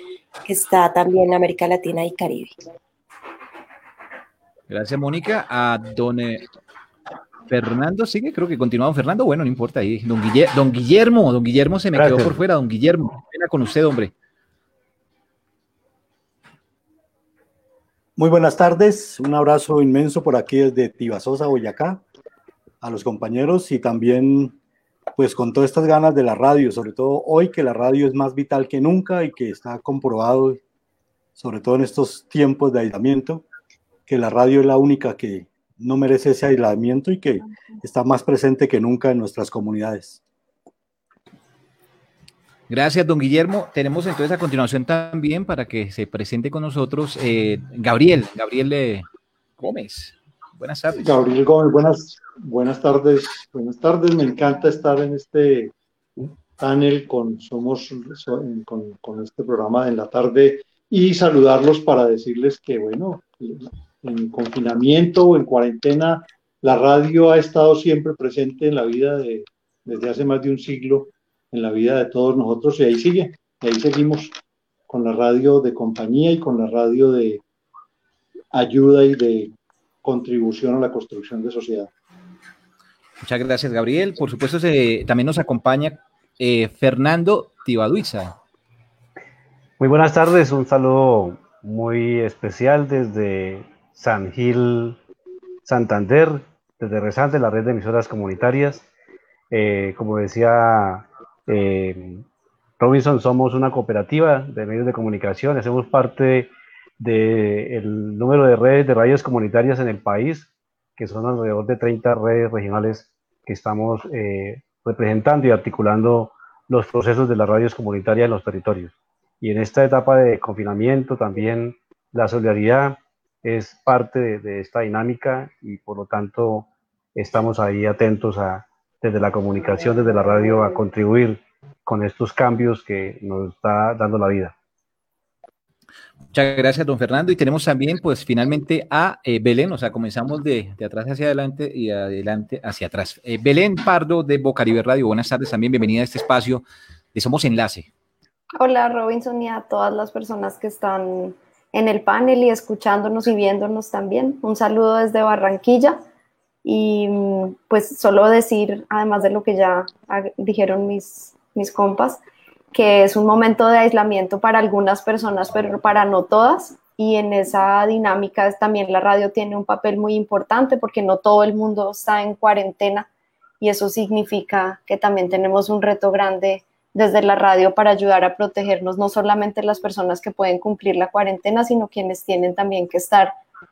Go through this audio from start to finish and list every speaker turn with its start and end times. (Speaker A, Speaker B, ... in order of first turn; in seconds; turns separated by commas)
Speaker A: 0.5-2.6, Speaker B: 4.7-6.5, Speaker B: 7.5-14.1, Speaker C: 11.9-12.4, Speaker D: 18.2-22.0, Speaker D: 22.8-24.6, Speaker D: 25.2-30.6, Speaker D: 31.4-33.4, Speaker D: 34.1-40.2, Speaker B: 42.7-49.1, Speaker B: 49.6-51.1, Speaker E: 51.0-74.4, Speaker E: 74.9-77.4, Speaker E: 78.5-79.5, Speaker E: 80.0-81.9, Speaker B: 83.2-88.4, Speaker C: 89.8-95.0, Speaker C: 95.7-98.8, Speaker C: 99.5-102.2, Speaker C: 102.8-134.5, Speaker B: 136.3-147.9, Speaker F: 148.6-156.0, Speaker F: 156.6-162.2, Speaker F: 162.7-173.1, Speaker F: 173.6-183.3